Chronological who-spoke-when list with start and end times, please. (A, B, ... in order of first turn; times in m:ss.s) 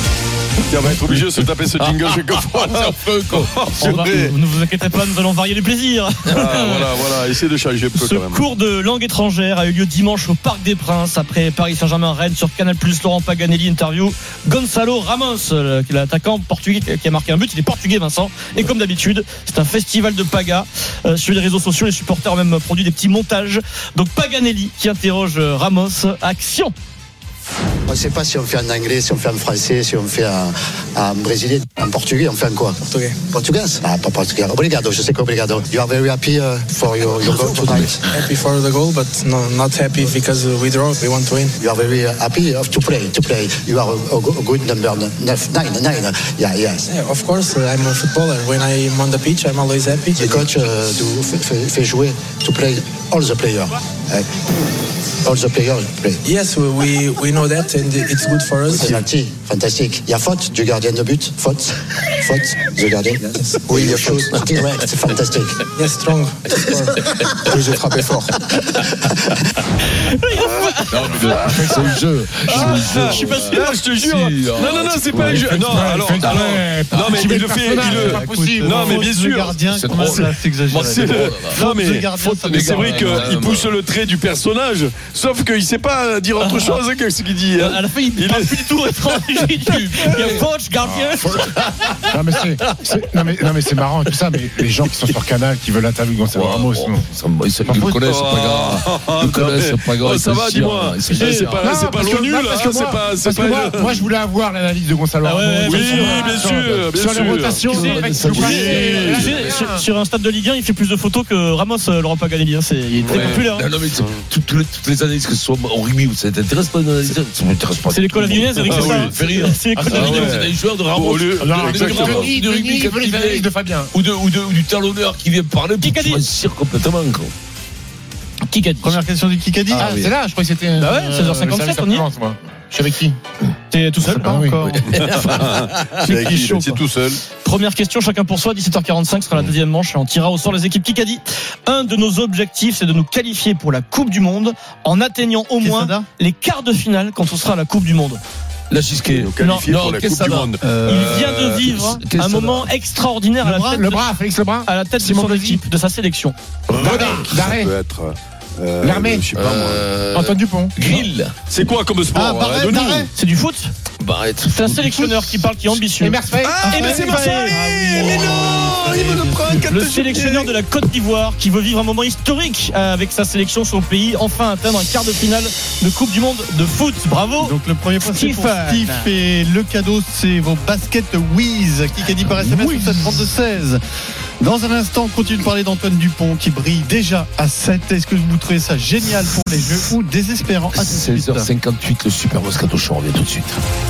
0:00.7-0:04.4 A
0:01.0-0:04.1 B
0:03.8-0:06.9 C
0:06.3-0:08.4 A
0:07.9-0:26.7 C
0:27.9-0:38.0 D
0:32.8-0:33.2 E
0:37.2-0:41.5 E
0:41.6-0:46.9 D
0:46.9-0:50.7 E
0:50.1-0:54.3 D
0:55.2-0:56.2 D
0:56.2-0:59.0 E
0:58.7-1:05.6 D
1:03.7-1:04.9 E
1:05.7-1:08.5 E
1:07.6-1:08.3 D
1:10.0-1:11.1 C
1:10.9-1:15.7 B
1:11.4-1:13.2 F
1:12.5-1:13.8 C
1:12.6-1:20.2 A
1:15.2-1:19.0 F
1:17.8-1:23.3 G
1:19.7-1:21.6 B
1:20.8-1:29.4 A
1:22.3-1:23.7 B
1:26.4-1:26.8 C
1:27.6-1:31.9 C
1:29.5-1:30.5 B
1:30.8-1:31.4 F
1:32.1-1:37.1 F
1:36.3-1:41.6 B
1:37.6-1:38.0 F
1:38.0-1:44.1 A
1:41.1-1:41.6 C
1:41.6-1:49.8 F
1:45.2-1:46.5 C
1:45.6-1:49.4 A
1:47.6-1:53.7 C
1:47.7-1:48.7 B
1:53.0-1:54.2 A
1:53.1-2:07.3 B
1:57.9-2:00.4 C
1:58.6-1:59.2 A
1:59.8-2:00.2 F
1:59.8-2:02.3 A
2:01.4-2:03.9 F
2:05.8-2:06.2 C
2:08.5-2:09.0 C
2:08.8-2:10.1 G
2:09.8-2:13.2 F
2:10.8-2:12.0 C
2:13.7-2:14.3 C
2:14.0-2:14.8 F
2:14.1-2:14.8 G
2:14.9-2:17.2 A
2:15.9-2:16.8 C
2:17.4-2:28.2 C
2:25.6-2:26.0 G
2:28.7-2:30.5 B
2:29.1-2:32.0 A
2:29.4-2:29.6 C
2:30.6-2:31.2 G
2:30.8-2:34.0 C
2:31.7-2:32.7 B
2:33.4-2:35.6 F
2:34.6-2:36.3 C
2:36.7-2:37.4 B
2:36.7-2:37.7 F
2:36.7-2:39.9 A
2:38.8-2:39.2 F
2:39.3-2:41.3 B
2:40.1-2:40.7 F
2:41.5-2:43.1 A
2:42.1-2:43.1 G
2:43.1-2:43.7 C
2:44.0-2:45.4 B
2:44.4-2:48.1 C
2:45.9-2:46.6 F
2:46.4-2:50.5 A
2:46.6-2:49.7 G
2:49.5-2:57.5 C
2:57.4-3:03.8 G
2:58.0-2:59.1 C
3:02.5-3:03.2 C
3:04.4-3:11.5 G
3:10.7-3:13.6 B